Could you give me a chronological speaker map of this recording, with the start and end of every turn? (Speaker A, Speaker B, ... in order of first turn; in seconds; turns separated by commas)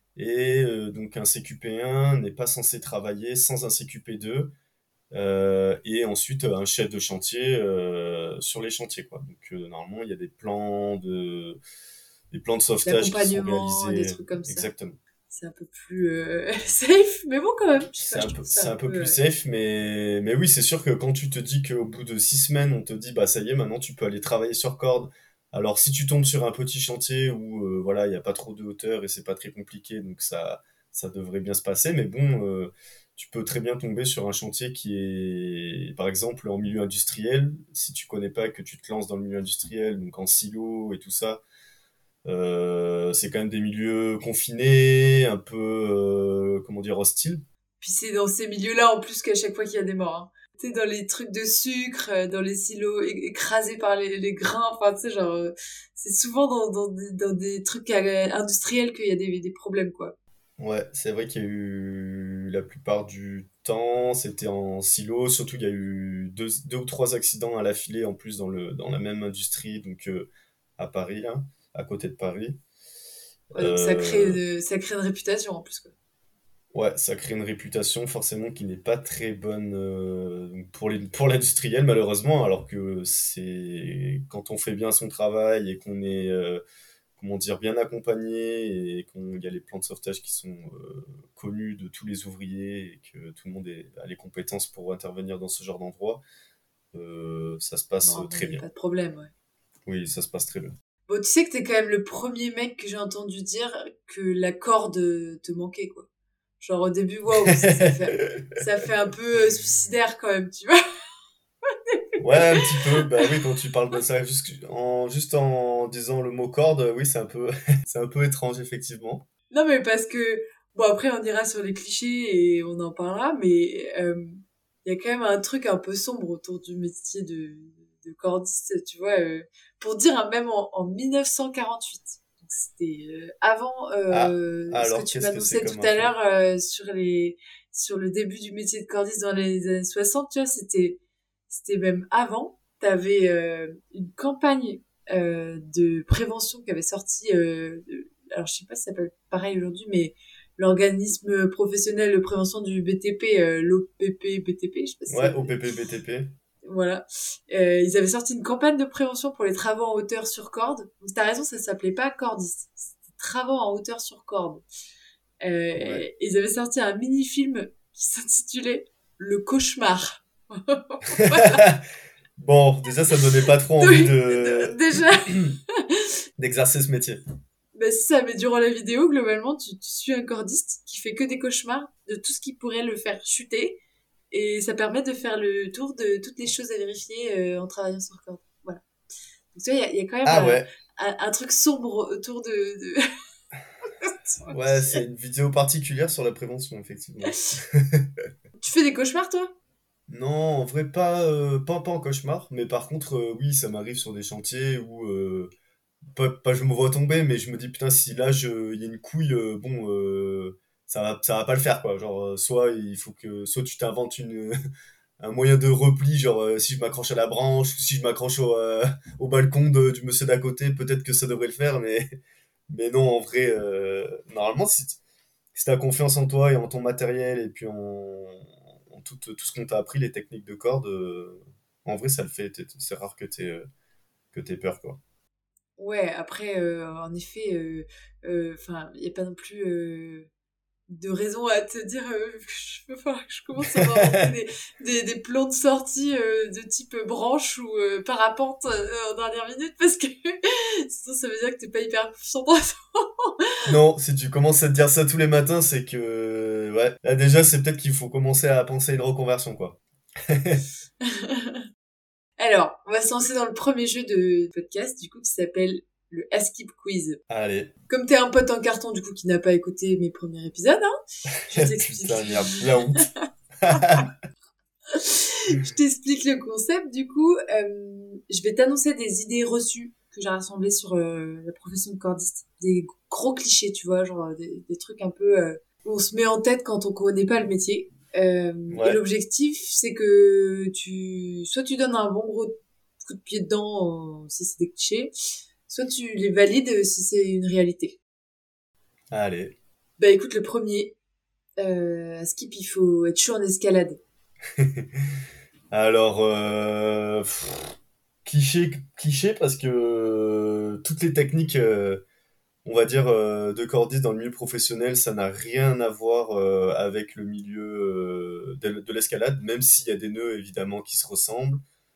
Speaker A: 0.1-4.5, Speaker A: 5.1-11.6, Speaker A: 12.3-15.0, Speaker B: 12.8-14.7, Speaker B: 15.3-19.2, Speaker A: 18.1-41.4, Speaker A: 42.2-47.4, Speaker B: 47.8-60.1, Speaker A: 60.6-72.6, Speaker A: 73.5-74.4, Speaker B: 73.5-75.9, Speaker A: 76.7-86.6, Speaker A: 87.2-96.2, Speaker A: 96.9-98.6, Speaker B: 98.0-99.3, Speaker A: 99.8-100.7, Speaker B: 101.1-106.1, Speaker B: 106.6-110.8, Speaker A: 107.5-108.4, Speaker B: 111.7-112.7, Speaker A: 112.2-119.2, Speaker B: 119.5-155.7, Speaker A: 134.1-136.1, Speaker A: 155.1-156.3, Speaker B: 156.6-164.6, Speaker B: 165.4-171.7, Speaker A: 165.8-166.0, Speaker A: 171.2-171.8, Speaker A: 172.4-175.5, Speaker B: 173.8-176.0, Speaker A: 176.4-177.2, Speaker B: 177.7-188.8, Speaker B: 189.5-193.1, Speaker A: 190.2-190.6, Speaker B: 194.0-195.0, Speaker A: 194.5-198.1, Speaker B: 198.6-199.5, Speaker A: 200.1-205.5, Speaker A: 206.1-214.5, Speaker A: 215.2-222.2, Speaker A: 222.7-225.0, Speaker A: 225.5-233.6, Speaker A: 234.3-235.0, Speaker B: 235.8-240.3, Speaker B: 240.9-253.3, Speaker A: 243.8-244.1, Speaker A: 253.7-260.6, Speaker B: 261.0-261.6, Speaker B: 262.4-267.2, Speaker A: 267.3-267.7, Speaker B: 267.9-270.9, Speaker B: 271.5-273.0, Speaker A: 271.5-273.1, Speaker A: 273.6-274.1, Speaker B: 273.7-274.0, Speaker B: 274.9-295.1, Speaker A: 288.7-289.0, Speaker B: 295.7-298.0, Speaker A: 299.1-299.6, Speaker B: 300.0-300.9, Speaker B: 301.6-304.0, Speaker A: 304.6-305.2, Speaker A: 305.7-312.0, Speaker A: 312.6-321.6